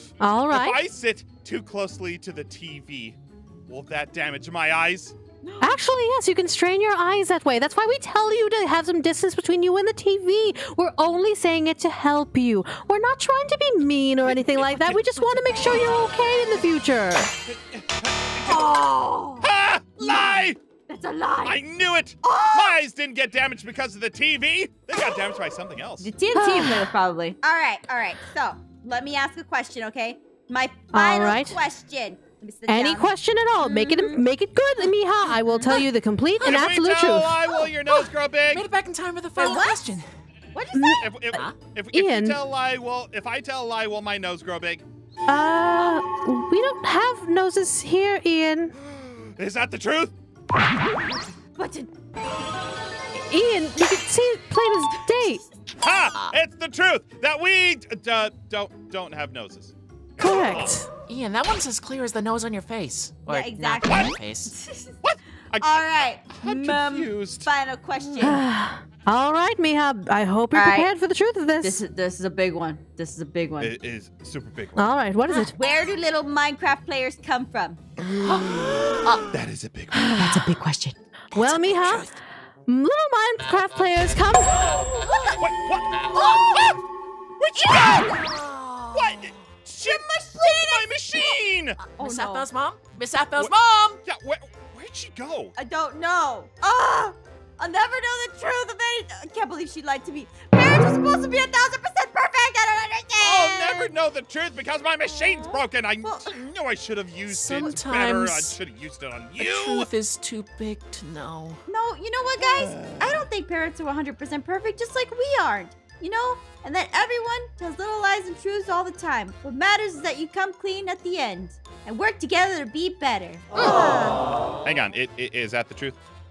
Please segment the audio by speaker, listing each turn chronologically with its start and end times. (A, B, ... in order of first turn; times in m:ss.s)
0:00.2-0:00.8 A
0:00.5-0:05.2 B
0:05.4-0:05.8 C
0:05.6-0:17.3 A
0:17.5-0:18.7 B
0:18.4-0:19.5 C
0:19.4-0:20.6 B
0:20.0-0:21.6 C
0:21.4-0:26.1 B
0:22.2-0:22.8 C
0:26.0-0:34.2 C
0:26.3-0:26.8 A
0:30.9-0:31.6 A
0:32.7-0:37.5 A
0:36.4-0:38.7 B
0:37.9-0:40.0 D
0:39.4-0:40.0 C
0:40.5-0:41.0 C
0:40.7-0:41.4 A
0:40.8-0:44.8 B
0:41.9-0:42.4 A
0:45.3-0:48.7 A
0:48.9-0:50.1 B
0:51.6-0:51.9 C
0:53.3-0:55.4 A
0:55.8-0:59.7 B
1:00.2-1:00.9 A
1:00.3-1:00.8 B
1:01.1-1:04.5 D
1:03.3-1:05.0 C
1:03.9-1:04.2 B
1:05.0-1:07.5 B
1:05.6-1:08.4 C
1:08.2-1:11.8 A
1:10.5-1:10.9 C
1:11.6-1:13.7 C
1:13.6-1:14.9 B
1:14.8-1:15.5 A
1:15.3-1:17.8 C
1:18.2-1:19.3 D
1:19.3-1:20.4 B
1:19.9-1:20.3 A
1:20.1-1:21.0 C
1:21.3-1:22.1 A
1:21.3-1:22.2 D
1:22.7-1:24.7 A
1:24.7-1:25.4 D
1:25.1-1:25.4 C
1:25.4-1:26.8 B
1:26.1-1:26.6 D
1:26.1-1:26.8 C
1:27.4-1:28.2 B
1:27.6-1:28.2 C
1:27.9-1:29.4 D
1:28.9-1:31.8 B
1:29.8-1:31.3 C
1:31.8-1:34.0 D
1:32.0-1:32.5 C
1:33.4-1:35.6 B
1:35.6-1:43.9 C
1:43.2-1:49.9 B
1:45.2-1:46.3 C
1:47.3-1:48.6 D
1:49.4-1:51.6 D
1:51.7-2:04.2 C
1:52.4-1:53.2 B
2:04.6-2:06.0 B